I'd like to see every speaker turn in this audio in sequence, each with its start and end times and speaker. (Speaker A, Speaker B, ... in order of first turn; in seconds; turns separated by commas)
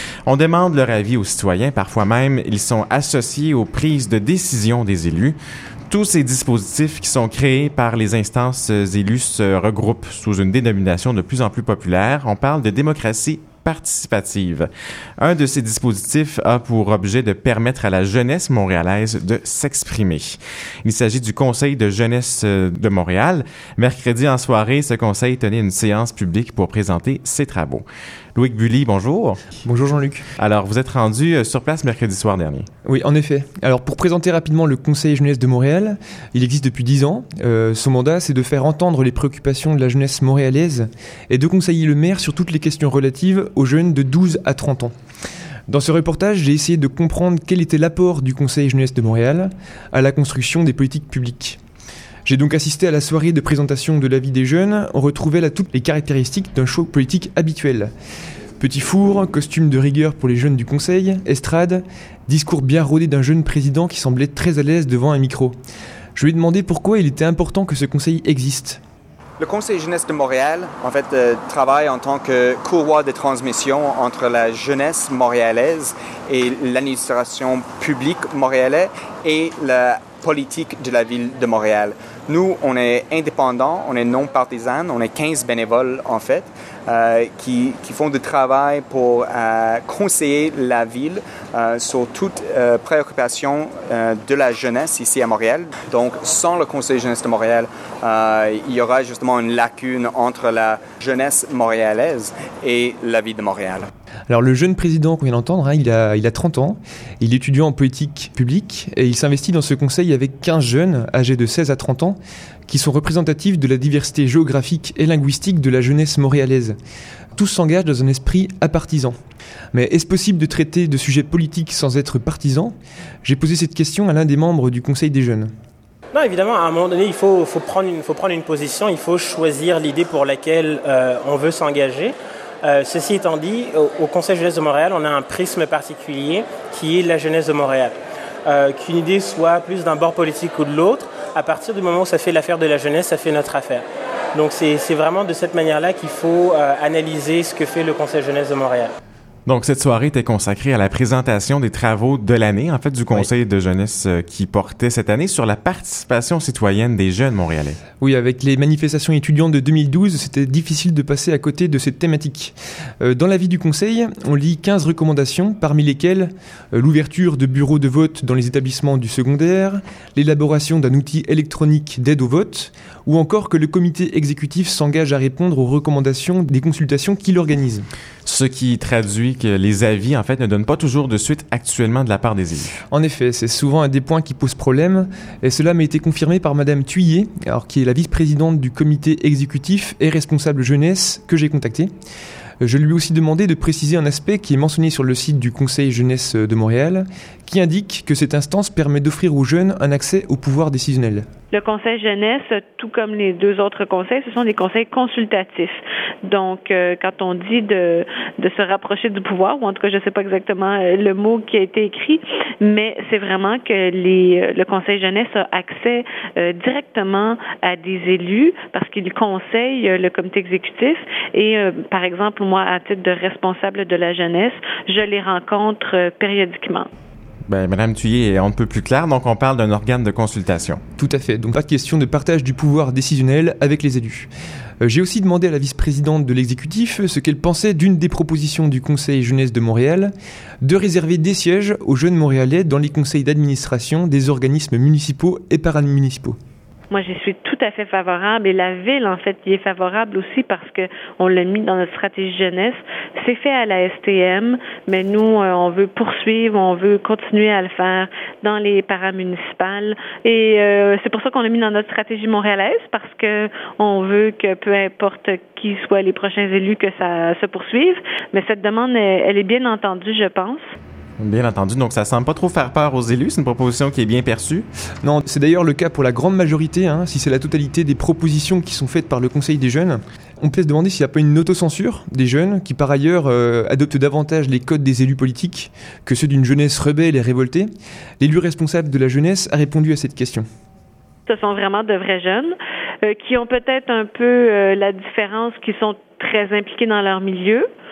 Speaker A: 0.2-5.4, Speaker A: 5.9-29.4, Speaker B: 29.6-30.2, Speaker A: 30.4-32.7, Speaker B: 32.8-44.9, Speaker B: 45.7-51.6, Speaker B: 52.2-57.9, Speaker B: 58.6-65.5, Speaker B: 66.2-68.8, Speaker C: 69.4-103.9, Speaker B: 104.3-116.8, Speaker B: 117.3-119.2, Speaker B: 119.7-125.5, Speaker D: 126.1-148.9, Speaker A: 149.4-157.8, Speaker B: 158.0-177.9, Speaker A: 178.2-182.8, Speaker B: 182.9-191.9, Speaker B: 192.6-201.2, Speaker E: 201.5-226.9, Speaker A: 227.5-230.8, Speaker B: 231.0-234.3, Speaker B: 234.8-246.4, Speaker E: 246.9-270.7, Speaker A: 271.2-274.7, Speaker B: 275.0-290.4, Speaker E: 291.3-297.6